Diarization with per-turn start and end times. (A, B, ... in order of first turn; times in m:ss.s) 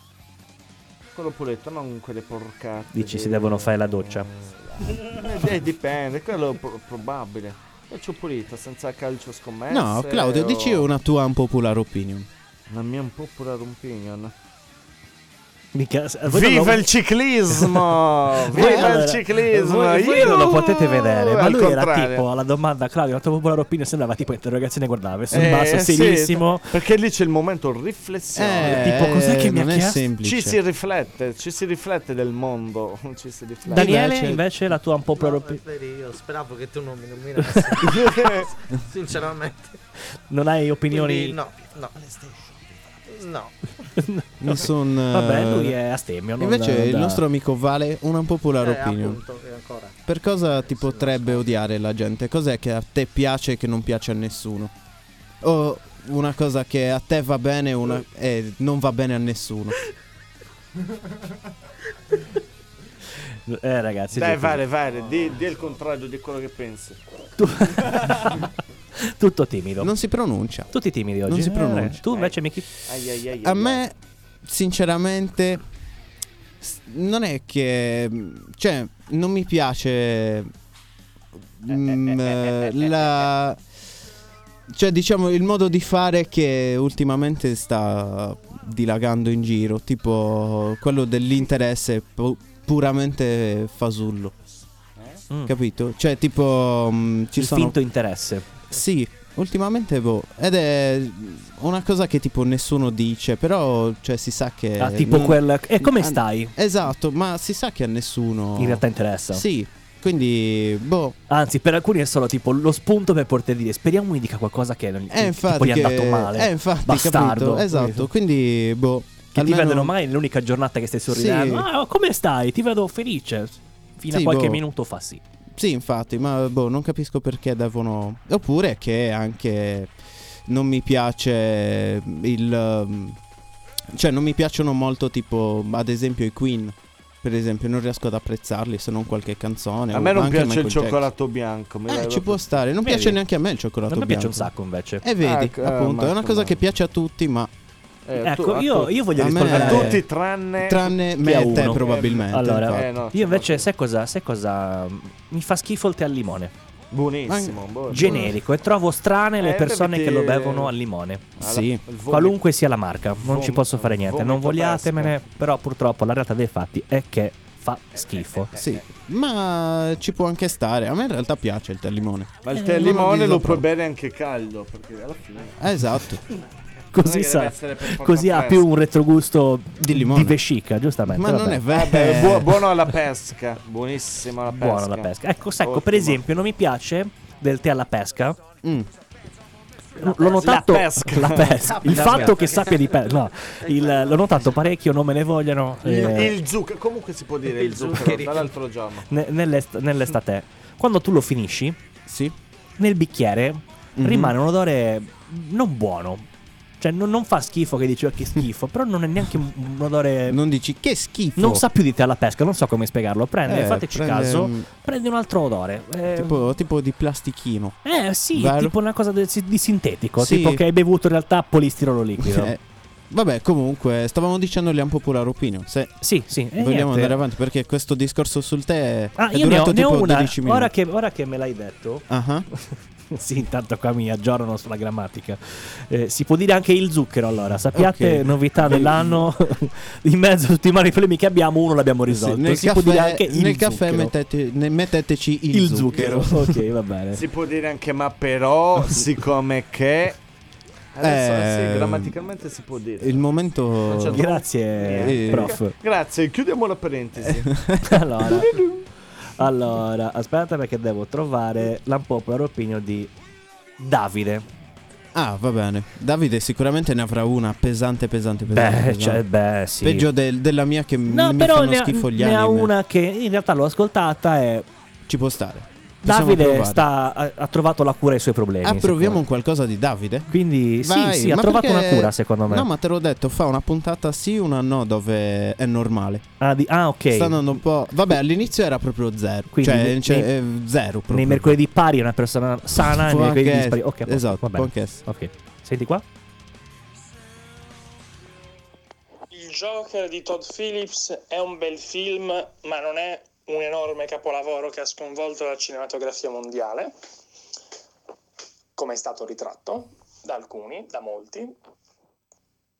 0:01.1-0:10.9 A
0:02.9-0:04.3 B
0:09.7-0:12.3 C
0:12.7-0:14.3 A
0:15.7-0:16.9 B
0:16.3-0:22.3 A
0:17.5-0:17.8 B
0:18.5-0:26.7 B
0:18.6-0:19.0 C
0:25.3-0:29.1 A
0:28.4-0:30.6 C
0:28.6-0:30.1 B
0:30.2-0:34.0 A
0:33.7-0:35.6 B
0:33.7-0:34.4 C
0:35.2-0:39.8 D
0:37.4-0:37.8 B
0:37.8-0:38.5 A
0:40.3-0:41.4 B
0:40.9-0:43.6 D
0:44.0-0:47.2 B
0:44.4-0:45.8 C
0:46.4-0:49.2 C
0:48.6-0:50.0 D
0:50.1-0:54.7 C
0:50.8-0:51.5 D
0:55.4-0:59.8 C
1:03.3-1:04.6 B
1:04.1-1:07.0 A
1:07.4-1:09.9 B
1:07.8-1:08.1 A
1:09.8-1:10.7 C
1:10.7-1:12.6 B
1:11.2-1:12.0 C
1:12.1-1:13.8 A
1:13.4-1:15.6 C
1:16.6-1:20.5 C
1:21.6-1:23.6 C
1:24.7-1:34.3 C
1:35.4-1:37.8 C
1:37.4-1:38.5 B
1:38.7-1:51.2 C
1:44.8-1:46.5 B
1:48.6-1:49.4 B
1:51.3-1:58.1 B
1:55.1-1:59.9 C
1:59.3-2:05.2 B
2:01.1-2:01.7 C
2:04.1-2:04.6 C
2:05.6-2:09.9 C
2:10.5-2:13.2 C
2:13.9-2:21.1 C
2:19.9-2:22.6 A
2:21.9-2:27.5 C
2:22.8-2:23.2 B
2:23.9-2:25.0 B
2:25.2-2:26.6 A
2:28.0-2:33.7 A
2:28.2-2:30.0 B
2:29.2-2:30.0 C
2:30.6-2:32.9 C
2:31.2-2:36.5 B
2:36.9-2:38.4 A
2:37.3-2:38.2 C
2:37.9-2:41.3 B
2:39.4-2:40.7 A
2:41.4-2:42.4 A
2:41.4-2:41.8 C
2:42.1-2:48.5 B
2:43.2-2:45.2 A
2:48.6-2:53.6 C
2:52.4-2:55.6 A
2:55.6-2:56.2 C
2:56.9-3:01.6 B
2:57.0-2:58.7 A
2:59.8-3:00.4 C
3:01.1-3:02.6 C
3:01.7-3:05.1 A
3:04.5-3:08.4 B
3:05.6-3:06.2 A
3:08.6-3:08.9 C
3:10.0-3:12.4 A
3:10.0-3:16.3 B
3:11.7-3:13.0 D
3:13.6-3:14.5 D
3:15.8-3:19.1 A
3:17.5-3:18.5 D
3:19.1-3:21.8 B
3:22.0-3:22.3 C
3:22.8-3:26.3 B
3:24.0-3:24.3 C
3:26.8-3:30.4 B
3:30.3-3:31.6 C
3:31.4-3:36.4 B
3:33.5-3:34.7 C
3:36.1-3:37.8 C
3:37.8-3:42.5 B
3:38.3-3:38.7 C
3:40.2-3:40.6 C
3:42.2-3:46.0 C
3:46.0-3:47.2 B
3:46.6-3:50.7 C
3:49.2-4:04.1 B
3:52.1-3:52.5 C
3:57.7-3:59.3 C
4:02.1-4:06.5 C
4:05.5-4:07.2 B
4:05.9-4:06.2 A
4:07.1-4:10.2 A
4:10.9-4:13.3 A
4:11.0-4:12.2 C
4:13.0-4:14.2 C
4:13.8-4:17.5 A
4:14.1-4:15.7 B
4:14.9-4:15.6 C
4:17.2-4:18.6 C
4:17.8-4:18.6 B
4:19.4-4:23.1 B
4:23.8-4:24.4 B
4:25.1-4:29.2 C
4:28.5-4:30.0 B
4:29.8-4:32.7 C
4:31.1-4:34.7 B
4:35.1-4:36.8 C
4:36.0-4:39.2 B
4:38.6-4:46.2 C
4:40.3-4:42.7 B
4:46.4-4:47.4 B
4:47.1-4:51.6 C
4:49.5-4:50.3 B
4:51.1-4:56.0 B
4:52.8-4:55.0 C
4:59.3-5:06.9 E
5:08.8-5:11.6 E